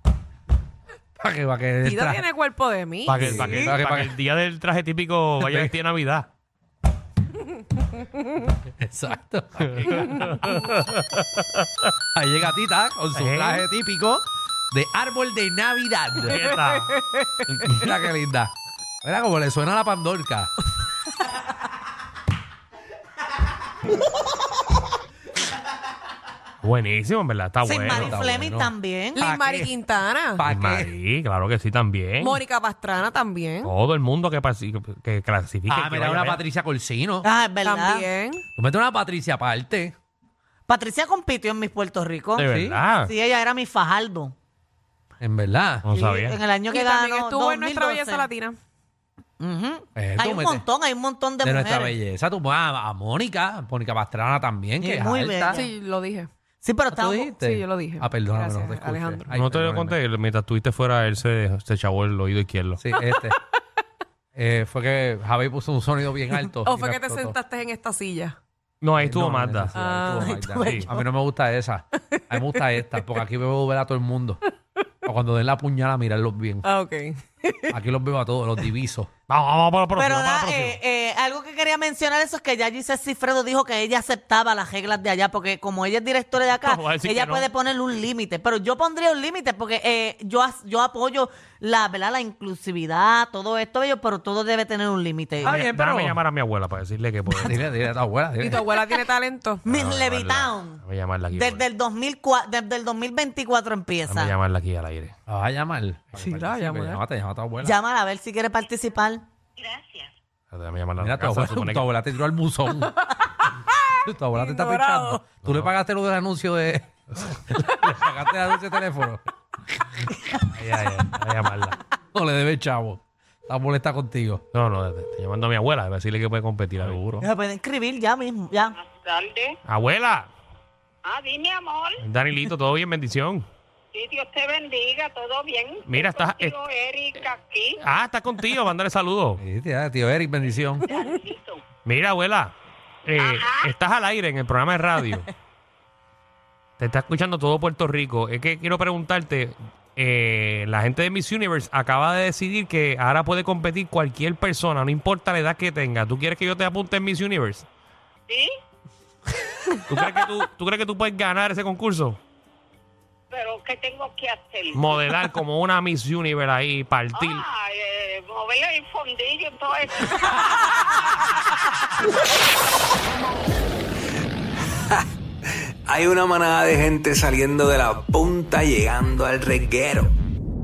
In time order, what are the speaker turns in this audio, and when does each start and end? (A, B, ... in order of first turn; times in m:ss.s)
0:01.2-0:02.2 A
0:01.8-0:03.6 B
0:03.1-0:04.1 A
0:03.1-0:06.3 C
0:05.4-0:05.7 A
0:08.8-0:10.2 A
0:09.6-0:11.9 C
0:12.1-0:16.4 A
0:13.1-0:13.6 C
0:16.2-0:16.9 C
0:16.4-0:17.4 B
0:17.5-0:20.5 A
0:26.6-0:28.1 C
0:27.6-0:29.2 D
0:27.9-0:29.7 A
0:29.1-0:30.4 B
0:30.4-0:30.9 A
0:30.4-0:32.4 C
0:32.2-0:33.7 B
0:33.6-0:36.4 C
0:35.7-0:37.3 A
0:37.2-0:38.1 D
0:37.6-0:38.4 B
0:38.6-0:39.9 A
0:40.7-0:42.4 D
0:42.4-0:43.1 C
0:42.5-0:42.8 A
0:43.1-0:44.3 D
0:45.2-0:45.9 A
0:45.8-0:46.4 C
0:45.9-0:48.2 D
0:46.6-0:48.6 B
0:49.4-0:51.9 D
0:50.0-0:50.6 A
0:51.4-0:55.6 A
0:54.8-0:55.6 D
0:55.5-0:56.3 B
0:56.6-0:57.2 D
0:56.9-1:00.0 A
0:57.4-0:59.3 B
0:59.3-1:02.8 C
1:02.8-1:03.4 A
1:04.3-1:07.4 A
1:06.6-1:08.4 B
1:08.8-1:09.7 C
1:09.0-1:14.4 A
1:09.7-1:10.4 B
1:10.1-1:11.0 D
1:10.5-1:10.9 C
1:12.1-1:12.6 B
1:15.0-1:16.6 A
1:16.6-1:17.7 B
1:17.7-1:19.1 A
1:19.3-1:20.8 C
1:20.0-1:35.5 D
1:26.6-1:27.5 C
1:35.4-1:36.2 A
1:35.4-1:37.6 C
1:37.3-1:38.7 A
1:38.4-1:39.6 B
1:39.6-1:40.8 D
1:39.6-1:41.6 C
1:41.3-1:44.3 D
1:44.0-1:45.1 C
1:45.3-1:47.8 A
1:46.1-1:47.0 B
1:47.6-1:49.2 D
1:49.6-1:49.9 E
1:50.5-1:51.9 C
1:51.0-1:53.0 A
1:54.0-1:59.2 A
1:54.3-1:55.2 B
1:55.4-1:55.7 C
2:00.5-2:01.8 C
2:02.1-2:04.4 A
2:04.5-2:07.2 C
2:06.8-2:07.2 A
2:07.2-2:08.8 D
2:08.8-2:09.6 E
2:09.6-2:10.3 C
2:11.0-2:12.0 E
2:12.0-2:13.4 C
2:13.9-2:17.8 E
2:15.8-2:16.6 C
2:17.8-2:19.4 C
2:19.4-2:20.9 A
2:20.8-2:21.6 E
2:20.9-2:21.2 B
2:21.8-2:22.5 C
2:23.0-2:25.3 C
2:23.2-2:23.7 E
2:26.8-2:37.6 C
2:39.9-2:42.2 C
2:43.3-2:44.8 E
2:44.7-2:47.4 C
2:47.2-2:50.8 E
2:55.8-3:00.1 F